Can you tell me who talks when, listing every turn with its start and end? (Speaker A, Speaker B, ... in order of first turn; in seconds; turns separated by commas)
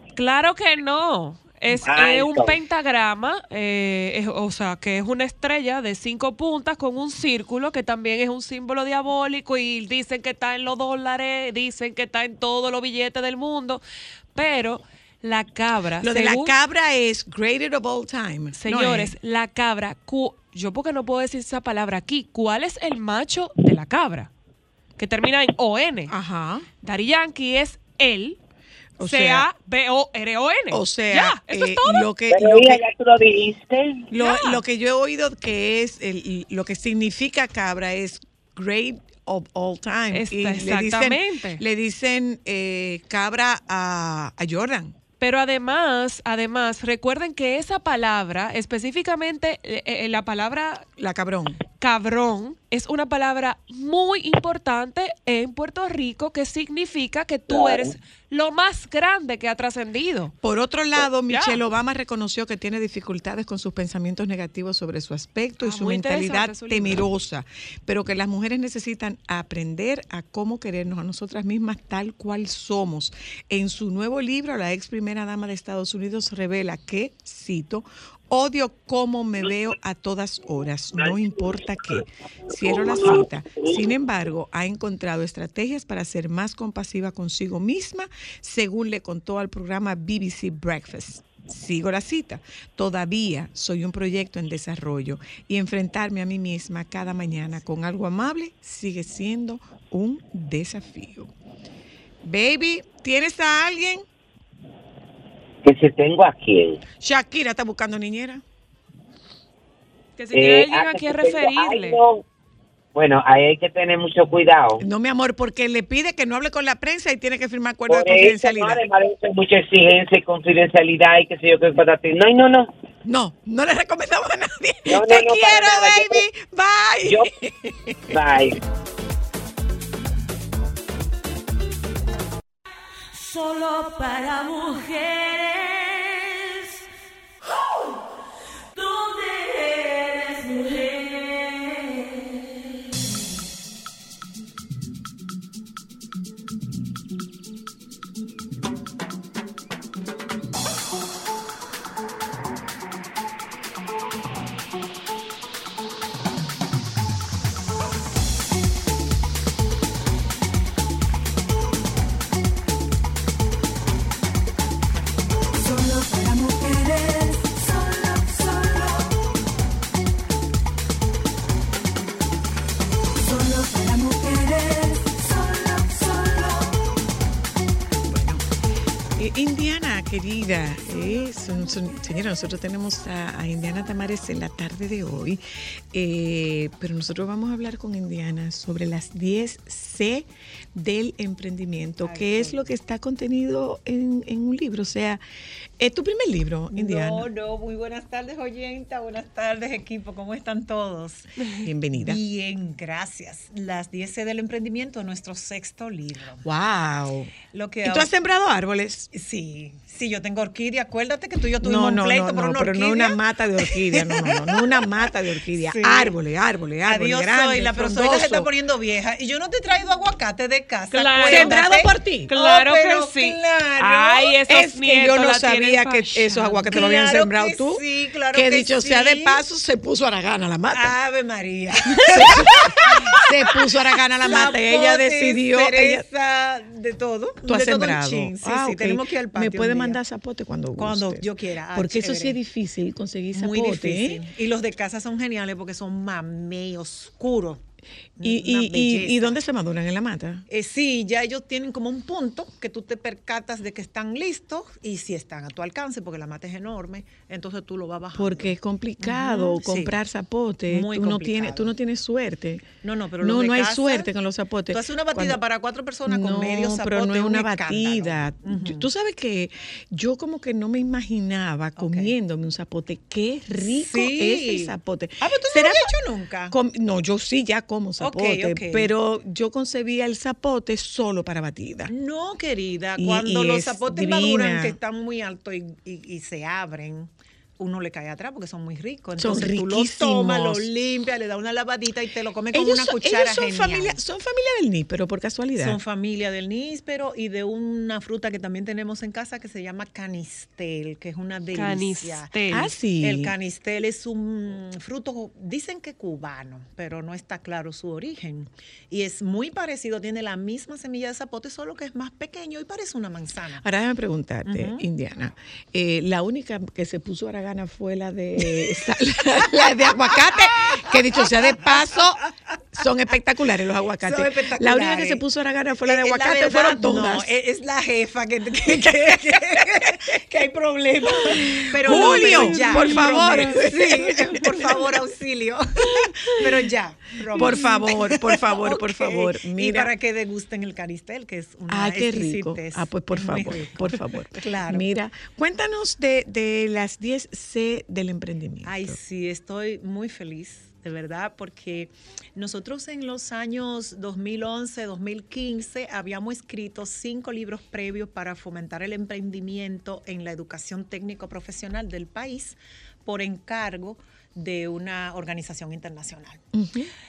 Speaker A: 0.2-13.8, Speaker B: 1.8-2.5, Speaker A: 14.3-16.6, Speaker C: 16.0-19.1, Speaker A: 18.5-24.3, Speaker A: 25.0-26.1, Speaker C: 26.1-26.7, Speaker A: 26.8-28.4, Speaker C: 29.0-29.5, Speaker A: 29.0-32.1, Speaker C: 30.7-32.8, Speaker B: 32.3-34.1, Speaker C: 34.1-45.0, Speaker A: 34.1-34.6, Speaker A: 40.1-41.6, Speaker A: 45.2-50.9, Speaker C: 51.0-51.6, Speaker A: 51.8-60.4, Speaker B: 57.5-57.9, Speaker C: 60.4-101.3, Speaker A: 61.3-61.6, Speaker A: 65.6-67.0, Speaker B: 82.6-83.6, Speaker C: 102.2-104.0, Speaker B: 105.6-106.8, Speaker C: 107.0-108.4, Speaker A: 110.2-112.0, Speaker B: 110.3-112.2, Speaker B: 113.0-114.8, Speaker C: 114.8-118.8, Speaker B: 117.9-122.7, Speaker C: 123.0-128.4, Speaker B: 124.9-126.2, Speaker B: 128.1-128.6, Speaker D: 133.1-136.5, Speaker D: 138.8-142.5, Speaker D: 166.3-168.3, Speaker C: 178.1-178.4, Speaker C: 179.2-195.2, Speaker E: 192.0-192.7, Speaker C: 195.8-197.3, Speaker E: 196.7-201.3, Speaker C: 201.6-202.2, Speaker E: 201.9-206.5, Speaker C: 206.4-209.1, Speaker E: 207.4-208.1, Speaker E: 209.1-216.2, Speaker C: 211.6-218.5, Speaker E: 216.8-224.4, Speaker A: 220.9-221.6, Speaker C: 221.3-222.3, Speaker A: 222.3-226.8, Speaker C: 224.4-231.0, Speaker E: 226.7-229.5, Speaker E: 230.7-240.0, Speaker C: 232.1-236.1, Speaker C: 237.4-244.3, Speaker E: 240.8-242.4, Speaker E: 243.3-247.6, Speaker E: 248.2-249.4, Speaker C: 248.2-250.5, Speaker E: 250.5-260.0, Speaker C: 258.1-265.4, Speaker E: 260.7-261.8, Speaker E: 262.8-264.1, Speaker E: 264.7-268.9, Speaker C: 266.1-275.9, Speaker E: 271.8-272.2, Speaker E: 273.6-276.6, Speaker C: 276.5-281.9, Speaker E: 278.0-278.9, Speaker E: 281.9-294.0, Speaker C: 283.0-284.8, Speaker C: 289.2-290.7, Speaker C: 292.5-295.8, Speaker E: 295.6-313.7, Speaker A: 301.5-302.7, Speaker C: 302.5-303.4, Speaker C: 313.6-322.2, Speaker E: 314.4-314.9, Speaker E: 319.9-323.1, Speaker C: 322.8-327.3, Speaker E: 324.0-325.2, Speaker E: 325.8-344.9, Speaker C: 328.6-330.0, Speaker C: 331.2-335.0, Speaker A: 331.9-333.6, Speaker C: 337.4-339.9, Speaker C: 341.7-349.0, Speaker E: 348.6-366.4, Speaker C: 366.5-366.9